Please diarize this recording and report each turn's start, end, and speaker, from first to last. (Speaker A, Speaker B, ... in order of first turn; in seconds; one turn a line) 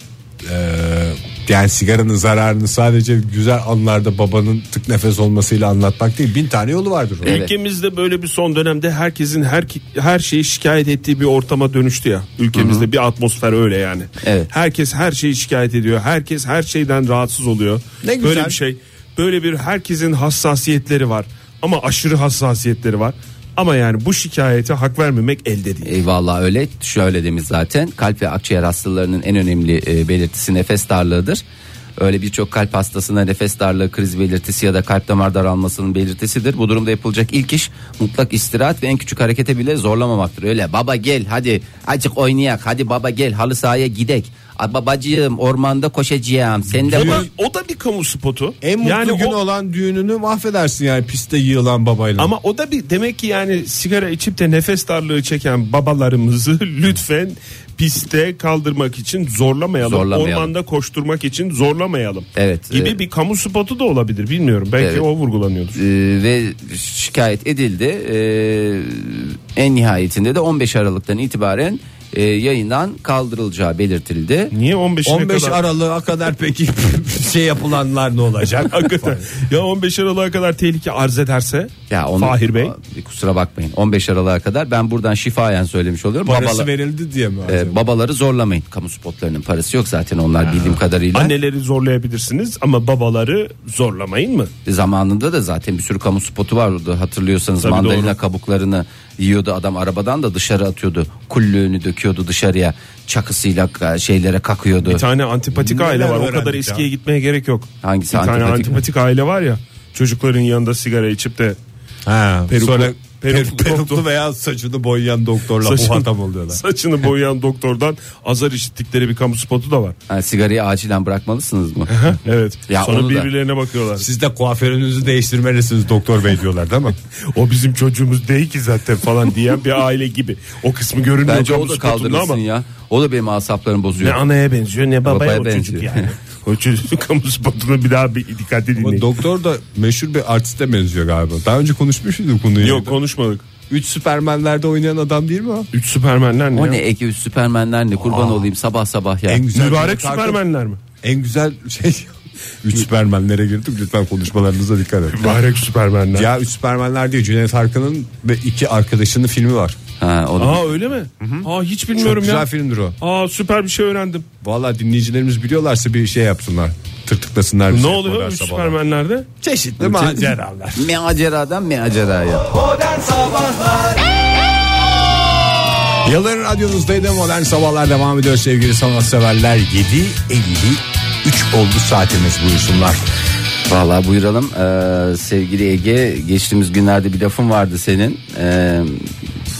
Speaker A: 0.4-7.4
Speaker B: 7.2-7.5
Speaker C: 7.2-25.9
Speaker B: 12.5-12.9
Speaker B: 14.2-14.5
Speaker A: 18.0-18.6
Speaker B: 25.8-31.4
Speaker B: 32.0-47.3
Speaker C: 46.9-49.4
Speaker A: 46.9-47.3
Speaker A: 48.6-52.3
Speaker C: 52.2-65.8
Speaker B: 59.8-60.5
Speaker B: 62.3-63.0
Speaker B: 64.8-65.0
Speaker B: 65.8-74.5
Speaker C: 74.5-75.6
Speaker A: 75.0-79.3
Speaker C: 78.7-82.7
Speaker B: 81.9-86.7
Speaker A: 86.2-87.8
Speaker B: 87.5-91.3
Speaker C: 91.1-94.5
Speaker B: 94.7-105.0
Speaker C: 97.6-98.1
Speaker C: 104.8-111.6
Speaker A: 105.5-106.9
Speaker B: 107.8-108.8
Speaker A: 112.0-116.6
Speaker C: 112.5-114.0
Speaker C: 115.6-120.0
Speaker B: 120.1-121.9
Speaker C: 121.9-124.1
Speaker B: 122.7-123.3
Speaker A: 124.0-126.9
Speaker C: 127.3-132.4
Speaker B: 131.2-134.2
Speaker C: 134.0-139.1
Speaker B: 135.0-136.1
Speaker A: 138.8-143.0
Speaker C: 142.6-143.4
Speaker A: 143.7-145.7
Speaker C: 145.7-146.8
Speaker B: 146.5-149.4
Speaker A: 148.1-148.4
Speaker A: 149.3-150.4
Speaker C: 149.5-150.8
Speaker A: 151.0-155.4
Speaker C: 155.1-156.3
Speaker A: 156.1-159.8
Speaker B: 160.0-160.8
Speaker C: 160.4-162.5
Speaker A: 161.2-163.0
Speaker C: 163.0-164.2
Speaker A: 164.4-168.8
Speaker C: 167.7-169.3
Speaker A: 169.4-170.9
Speaker B: 169.8-173.1
Speaker A: 176.0-183.0
Speaker B: 183.7-189.1